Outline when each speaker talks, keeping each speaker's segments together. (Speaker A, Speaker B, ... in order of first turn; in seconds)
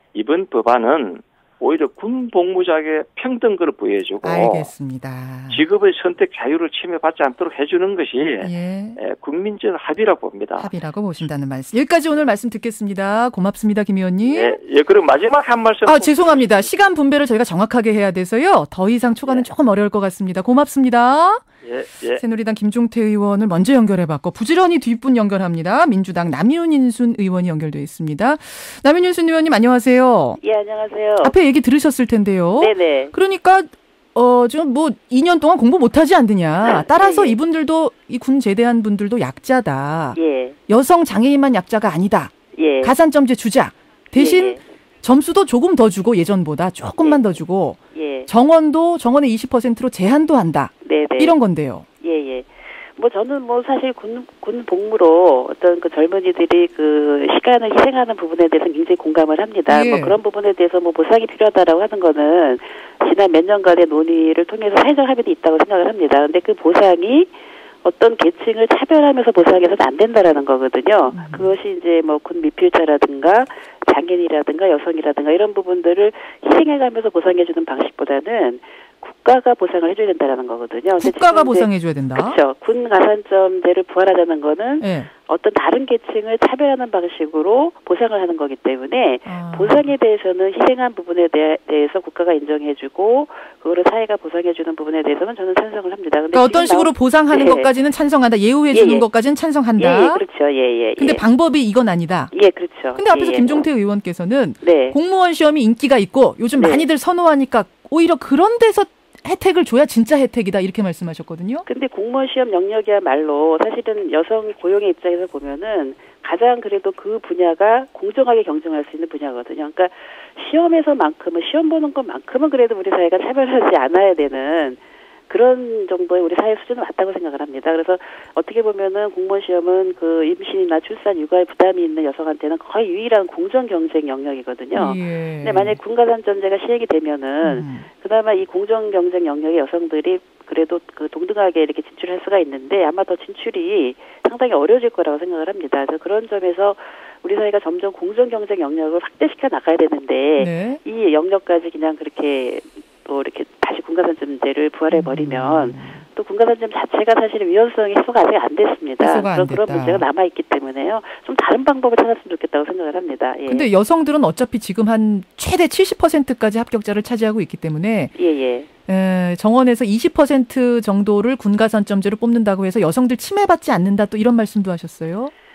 Speaker A: 0.1-4.7, 5.5-10.7, 14.2-16.7, 21.6-22.2
Speaker B: 4.2-5.6, 8.4-9.0, 10.6-14.6, 15.8-21.4, 22.2-30.4, 31.2-40.2, 40.7-51.9, 59.7-60.2, 71.1-71.5, 81.0-82.4, 84.8-85.1, 89.2-89.9, 96.3-100.2, 101.0-102.3, 103.0-111.6, 134.7-135.8, 137.4-137.9, 150.4-150.8, 154.9-156.0, 159.0-160.1, 163.5-168.1, 168.9-175.3
Speaker C: 30.4-31.4, 32.5-33.1, 36.6-37.4, 40.1-40.6, 42.5-43.0, 44.1-44.6, 47.0-47.3, 47.9-48.3, 50.8-51.4, 52.0-67.3, 67.8-97.7, 98.7-99.0, 99.8-101.2, 102.3-103.7, 104.6-105.0, 106.5-106.9, 111.7-163.7, 168.1-168.7